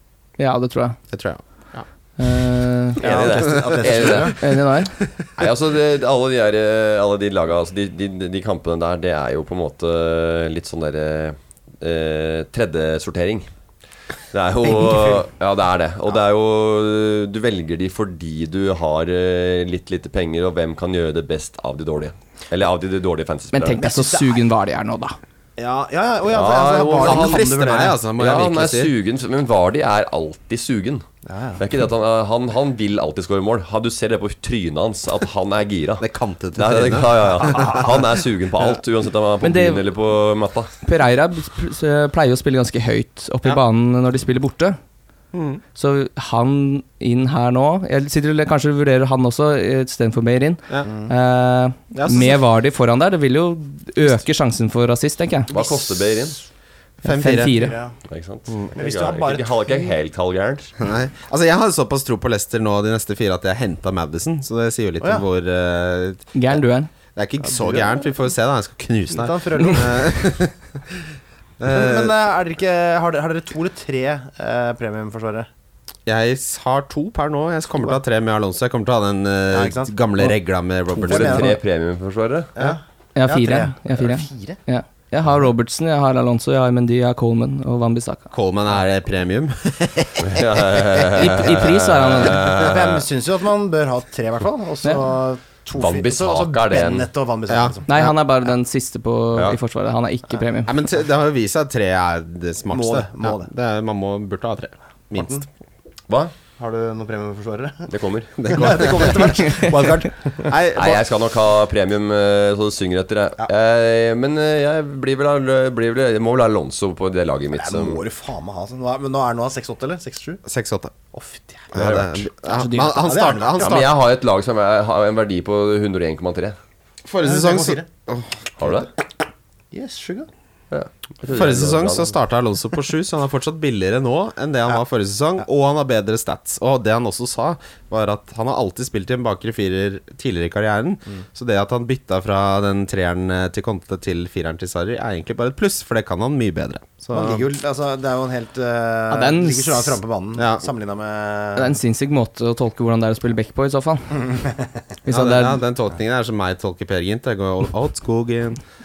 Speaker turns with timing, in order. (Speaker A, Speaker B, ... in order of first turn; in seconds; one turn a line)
Speaker A: 0.4-1.0
Speaker B: 1.1-1.9
Speaker A: 2.2-3.0
Speaker C: 3.0-4.4
Speaker D: 3.0-4.4
Speaker B: 3.1-4.3
Speaker A: 4.4-4.9
Speaker D: 5.4-13.5
Speaker D: 14.3-23.8
Speaker A: 23.5-25.2
Speaker C: 23.8-24.4
Speaker C: 25.6-28.0
Speaker D: 26.3-27.5
Speaker B: 26.6-28.9
Speaker D: 28.2-31.0
Speaker C: 31.3-31.6
Speaker D: 31.6-40.7
Speaker B: 36.0-37.9
Speaker A: 39.4-39.8
Speaker A: 40.8-44.8
Speaker B: 45.3-45.6
Speaker A: 45.8-55.5
Speaker C: 50.8-51.1
Speaker B: 51.9-52.4
Speaker D: 55.5-56.4
Speaker B: 57.0-57.6
Speaker A: 57.0-57.8
Speaker C: 57.5-57.9
Speaker D: 58.1-60.7
Speaker C: 58.8-59.9
Speaker B: 60.8-66.3
Speaker C: 65.0-65.3
Speaker A: 66.3-66.9
Speaker B: 67.2-71.0
Speaker C: 67.4-68.0
Speaker C: 69.1-70.3
Speaker B: 71.6-72.1
Speaker C: 71.7-75.5
Speaker B: 76.1-81.6
Speaker C: 79.5-80.3
Speaker C: 80.9-81.6
Speaker D: 81.0-82.5
Speaker C: 82.6-84.6
Speaker A: 83.2-88.3
Speaker B: 88.3-91.3
Speaker D: 90.2-93.0
Speaker A: 91.1-92.5
Speaker C: 92.5-97.9
Speaker D: 95.8-97.1
Speaker B: 97.5-98.1
Speaker A: 97.9-100.7
Speaker B: 100.7-105.5
Speaker C: 102.7-103.5
Speaker C: 105.2-105.5
Speaker C: 106.6-107.9
Speaker D: 107.9-109.1
Speaker B: 108.4-111.0
Speaker C: 108.5-110.5
Speaker D: 110.7-118.0
Speaker C: 117.5-120.4
Speaker B: 120.5-120.9
Speaker C: 121.1-121.7
Speaker B: 121.7-123.9
Speaker D: 121.7-122.3
Speaker A: 122.5-123.0
Speaker C: 123.0-123.9
Speaker D: 123.6-126.6
Speaker B: 127.0-128.8
Speaker C: 127.2-127.9
Speaker D: 128.6-128.9
Speaker C: 129.7-130.3
Speaker D: 130.7-132.2
Speaker B: 131.3-147.4
Speaker C: 147.1-151.8
Speaker A: 149.1-150.0
Speaker B: 150.4-150.7
Speaker A: 151.6-154.4
Speaker C: 154.2-154.7
Speaker A: 155.1-155.6
Speaker B: 155.1-158.6